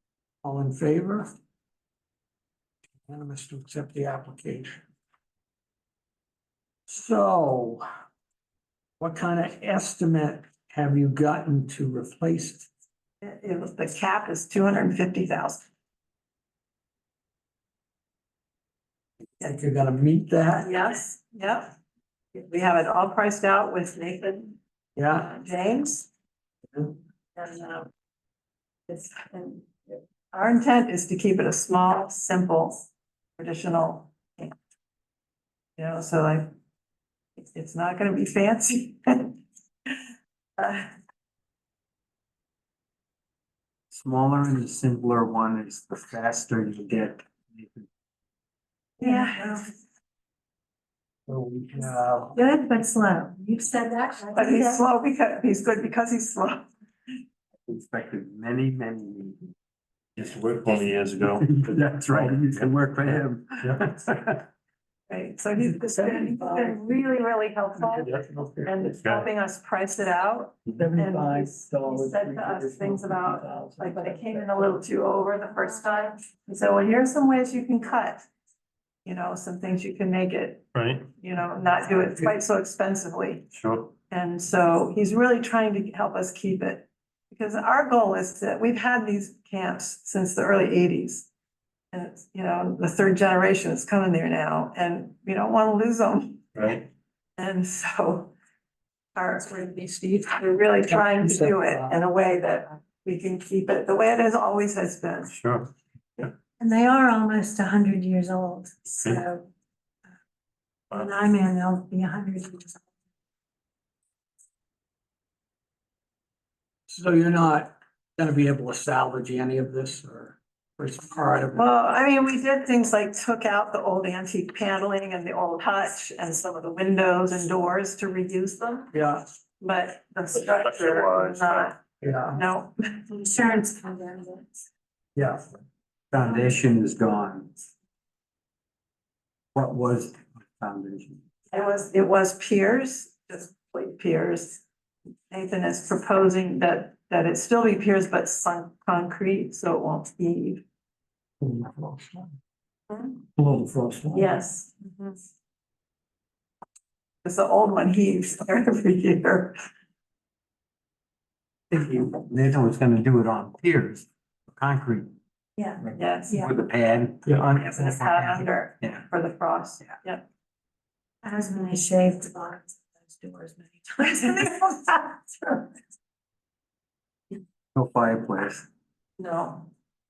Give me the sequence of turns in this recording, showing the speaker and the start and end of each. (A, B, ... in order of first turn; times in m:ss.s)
0:00.4-0:01.3 A
0:03.1-0:04.8 A
0:06.9-0:07.8 A
0:09.0-0:12.7 A
0:13.2-0:15.6 B
0:19.4-0:20.7 A
0:20.6-0:21.7 B
0:22.3-0:24.6 B
0:25.0-0:25.3 A
0:25.1-0:26.1 B
0:27.4-0:27.9 B
0:28.9-0:32.9 B
0:33.4-0:34.6 B
0:35.8-0:36.5 B
0:37.4-0:40.9 B
0:43.9-0:47.9 C
0:49.0-0:49.6 D
0:49.0-0:49.6 B
0:51.3-0:52.4 A
0:52.4-0:54.8 D
0:54.4-0:56.7 B
0:57.7-0:59.4 C
1:00.2-1:03.8 E
1:01.4-1:04.4 C
1:05.1-1:08.1 B
1:05.8-1:06.9 A
1:07.8-1:08.9 A
1:08.6-1:18.2 B
1:09.0-1:09.3 E
1:10.7-1:14.8 A
1:19.0-1:23.5 B
1:20.7-1:21.1 E
1:23.5-1:23.9 E
1:24.1-1:31.3 B
1:31.9-1:36.4 B
1:36.6-1:36.9 E
1:37.4-1:38.3 B
1:39.2-1:45.3 B
1:40.9-1:42.0 A
1:45.3-1:46.3 E
1:46.6-1:49.5 D
1:50.9-1:52.8 D
1:56.9-2:01.7 A
2:01.6-2:08.9 B
2:08.9-2:09.2 A
2:09.6-2:11.8 B
2:10.4-2:11.7 E
2:12.0-2:12.4 A
2:12.3-2:13.0 B
2:13.1-2:14.5 D
2:15.2-2:15.5 A
2:16.1-2:17.5 C
2:19.6-2:21.2 C
2:21.5-2:24.6 B
2:25.3-2:30.6 B
2:31.4-2:32.3 A
2:32.9-2:33.2 B
2:33.4-2:34.3 A
2:34.1-2:35.2 B
2:37.2-2:39.6 B
2:41.7-2:45.1 C
2:45.6-2:46.5 D
2:46.0-2:46.5 B
2:46.3-2:49.0 C
2:47.3-2:47.8 A
2:47.5-2:50.2 B
2:51.2-2:55.7 D
2:57.8-2:58.6 C
2:59.2-2:59.7 B